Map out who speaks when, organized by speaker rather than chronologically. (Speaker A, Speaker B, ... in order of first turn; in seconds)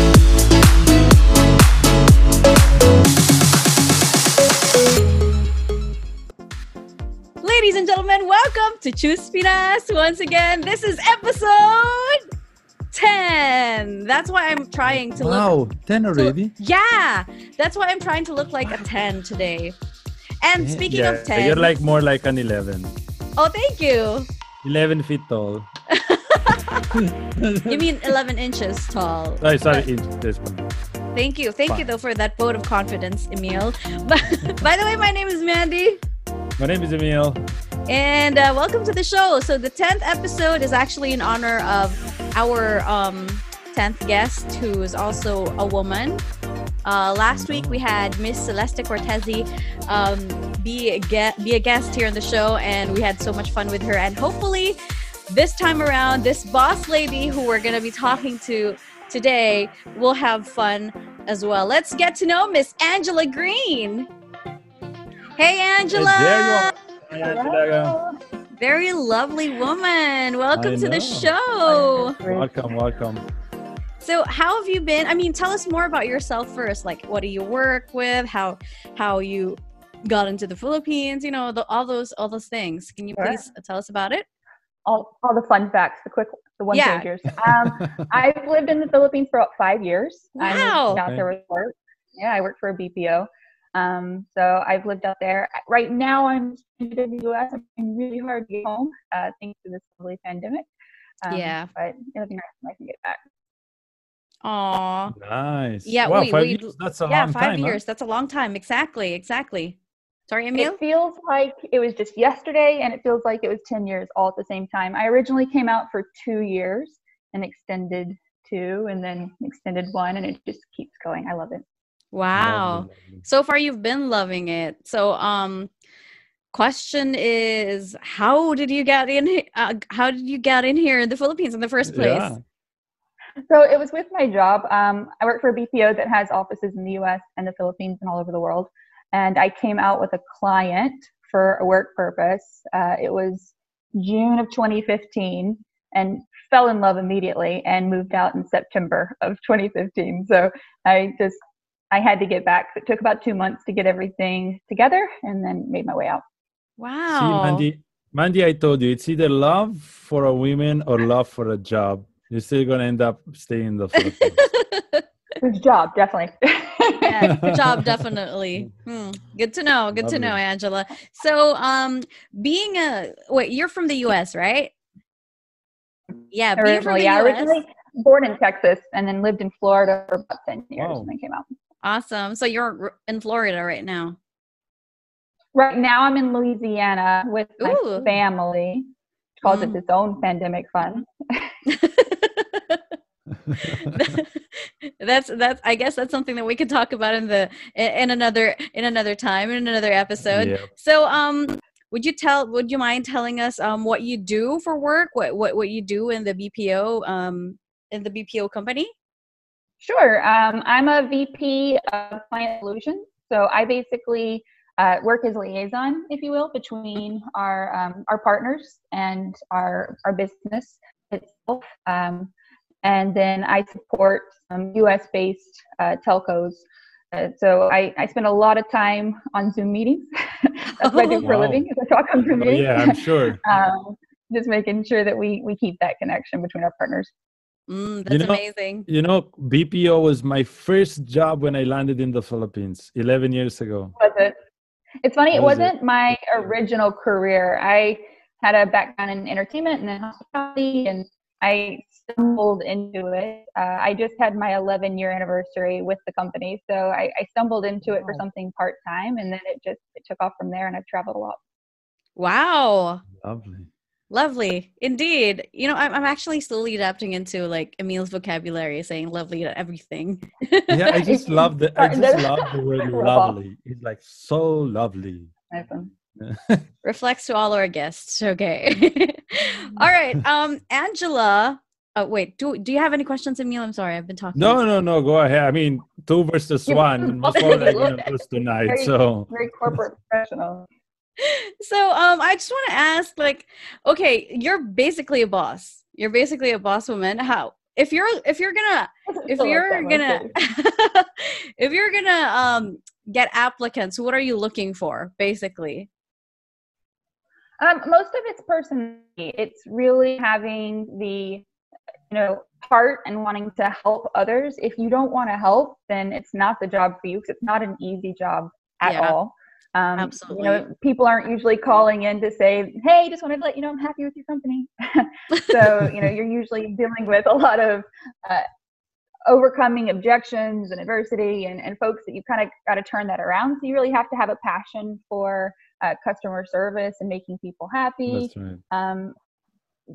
Speaker A: 7.4-12.2, 12.9-15.5, 16.1-19.7, 20.4-21.7, 23.4-24.3, 25.9-26.9, 27.6-29.9, 31.1-36.0, 37.9-46.2, 46.8-54.8, 55.3-64.1, 65.4-66.7, 68.6-72.2, 74.0-84.2, 86.7-87.1, 90.4-91.0, 101.3-101.7, 104.4-105.1, 105.8-109.8, 110.3-110.8, 122.1-125.7, 126.5-132.3, 156.8-157.6, 164.0-165.0, 167.0-174.7, 176.3-177.6, 181.8-184.2, 187.6-188.1, 189.4-189.8, 191.7-192.8, 193.6-208.9, 230.8-231.2, 237.7-238.9, 262.1-263.0, 264.1-271.1, 276.8-284.6, 291.2-305.9, 318.9-319.1, 320.0-320.6
Speaker B: 15.2-16.5, 20.6-22.9, 24.6-25.7, 26.9-27.9, 29.4-30.7, 36.6-37.4, 47.3-47.8, 65.9-68.0, 70.5-71.3, 72.2-73.2, 90.9-91.2, 105.1-107.8, 122.3-123.2, 131.9-132.4, 157.1-164.4, 167.3-168.1, 169.9-170.4, 180.8-181.1, 193.4-194.2, 200.2-200.7, 231.2-231.6, 232.3-233.4, 238.1-243.9, 245.3-245.7, 263.2-263.7, 270.7-275.3, 276.1-276.7, 284.3-289.3, 338.1-338.6
Speaker C: 67.2-68.2, 71.7-72.5, 83.2-83.4, 84.8-100.7, 101.2-103.2, 110.6-121.6, 133.5-151.4, 151.9-156.2, 165.4-167.4, 176.6-181.4, 185.5-188.8, 189.4-191.5, 209.8-222.3, 222.8-237.1, 244.0-244.3, 245.0-261.4, 270.9-273.4, 275.5-275.9, 286.7-288.1, 288.7-290.6, 299.1-300.3, 307.6-311.4, 312.1-328.4, 329.3-339.1